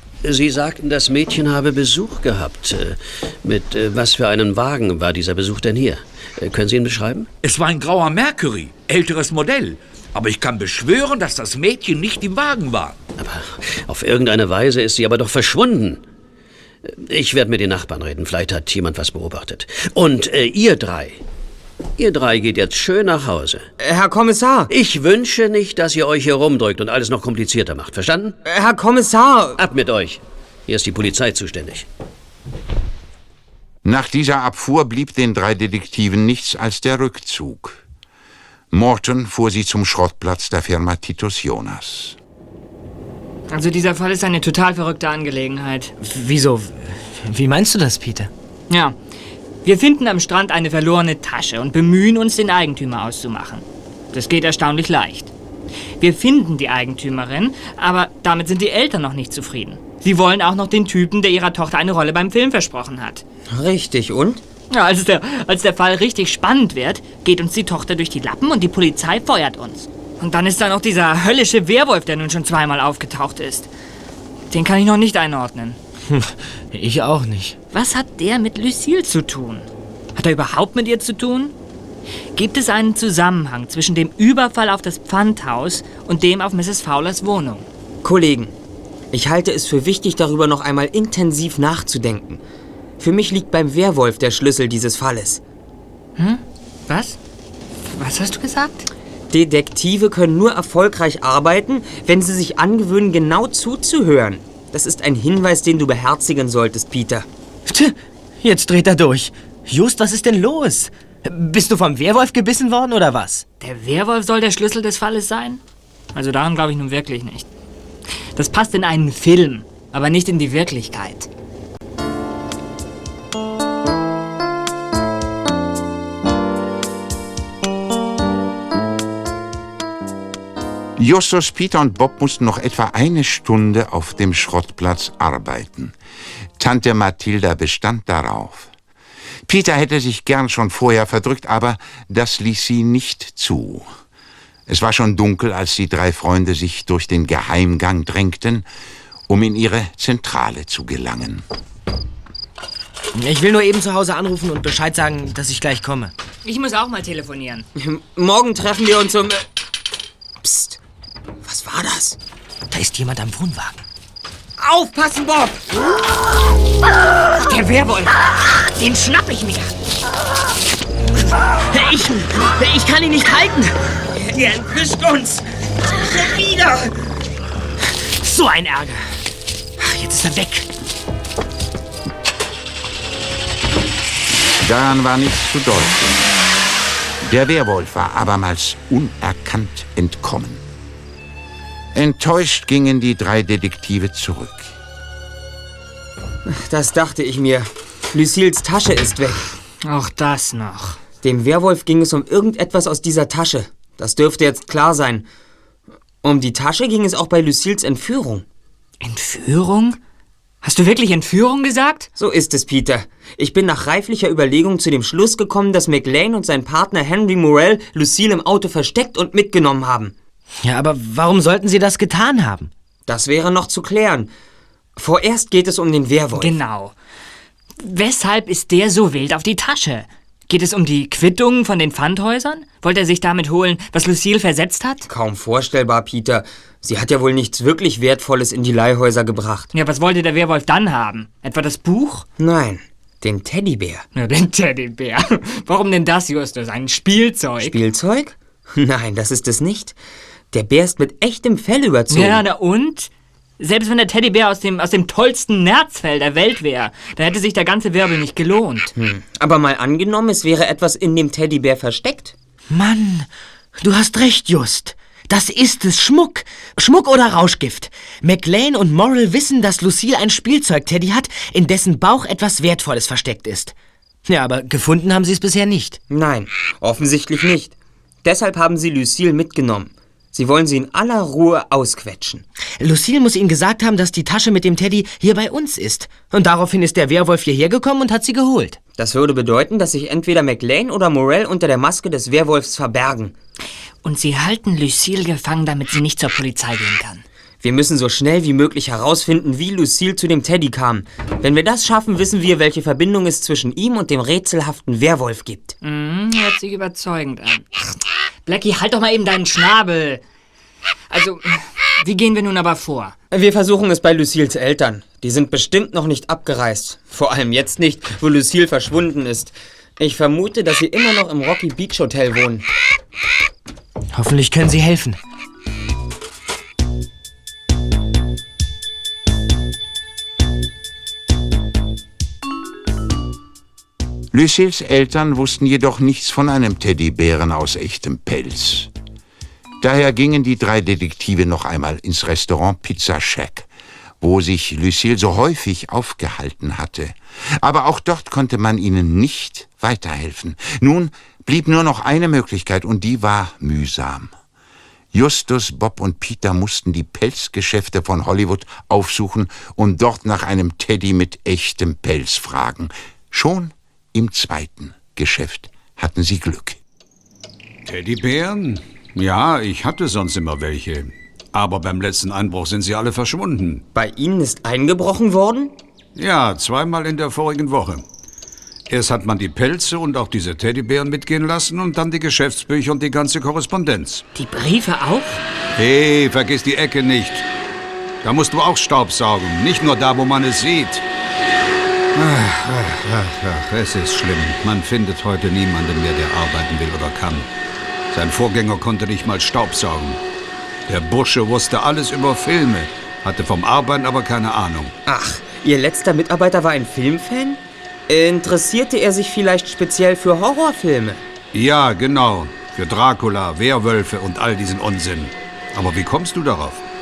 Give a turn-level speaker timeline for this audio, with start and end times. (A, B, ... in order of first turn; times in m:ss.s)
0:00.2-0:07.3 A
0:07.4-0:13.0 B
0:13.2-0:16.0 A
0:16.8-0:21.2 A
0:22.0-0:23.7 A
0:23.8-0:24.7 C
0:24.7-0:28.4 A
0:28.5-0:29.6 C
0:29.6-0:31.9 A
0:33.8-0:37.8 D
0:38.7-0:42.2 D
0:43.5-0:45.9 E
0:46.0-0:48.3 F
0:48.7-0:49.0 E
0:49.6-0:55.3 E
0:56.0-1:03.2 E
1:03.5-1:04.4 C
1:04.7-1:13.7 E
1:14.5-1:15.8 E
1:16.1-1:17.6 F
1:17.7-1:21.5 E
1:22.4-1:27.7 E
1:28.0-1:28.6 C
1:29.1-1:32.4 C
1:33.0-1:35.4 C
1:36.2-1:37.2 E
1:37.9-1:38.9 E
1:39.3-1:47.3 C
1:47.7-1:53.4 F
1:53.6-1:55.6 E
1:56.1-1:57.5 E
1:58.4-2:01.3 E
2:11.0-2:15.9 D
2:16.6-2:18.7 D
2:19.5-2:23.9 D
2:24.7-2:28.7 D
2:29.3-2:31.4 D
2:33.2-2:36.1 F
2:36.4-2:37.7 E
2:37.8-2:39.4 C
2:40.4-2:40.8 C
2:41.4-2:42.2 C
2:42.7-2:43.8 F
2:44.6-2:45.6 C
2:47.4-2:49.7 E
2:51.7-2:53.8 F
2:54.2-2:56.9 C
2:58.0-2:59.1 F
2:59.8-3:00.7 F
3:04.6-3:06.2 D
3:07.2-3:10.6 D
3:11.9-3:14.8 D
3:16.5-3:19.5 C
3:19.8-3:21.0 E
3:21.2-3:25.3 C
3:26.2-3:28.4 C
3:29.0-3:30.0 E
3:30.6-3:32.1 E
3:32.2-3:40.1 C
3:40.6-3:42.7 F
3:43.1-3:44.3 C
3:45.0-3:46.6 C
3:46.4-3:46.9 E
3:47.8-3:55.0 E
3:55.1-3:59.7 C
3:59.7-4:02.3 E
4:02.4-4:04.0 C
4:04.2-4:07.8 E
4:07.6-4:10.0 C
4:10.5-4:12.4 C
4:12.1-4:18.9 E
4:19.0-4:22.3 C
4:22.7-4:23.3 F
4:23.8-4:33.7 F
4:34.3-4:36.0 F
4:36.1-4:42.4 C
4:42.8-4:48.8 F
4:49.0-4:53.3 C
4:54.0-4:57.2 E
4:57.6-5:05.7 C
5:05.8-5:07.7 E
5:08.5-5:10.2 E
5:11.1-5:13.1 E
5:13.3-5:22.6 C
5:24.1-5:25.2 F
5:34.3-5:38.9 D
5:39.8-5:43.7 D
5:44.2-5:54.3 D
5:55.1-6:06.8 D
6:07.9-6:13.8 G
6:13.9-6:15.7 C
6:16.2-6:18.0 G
6:18.9-6:24.2 G
6:24.4-6:25.4 E
6:25.8-6:27.4 G
6:28.2-6:31.0 G
6:32.2-6:37.5 G
6:38.1-6:40.2 G
6:40.9-6:44.9 G
6:45.1-6:51.2 C
6:51.5-6:56.8 G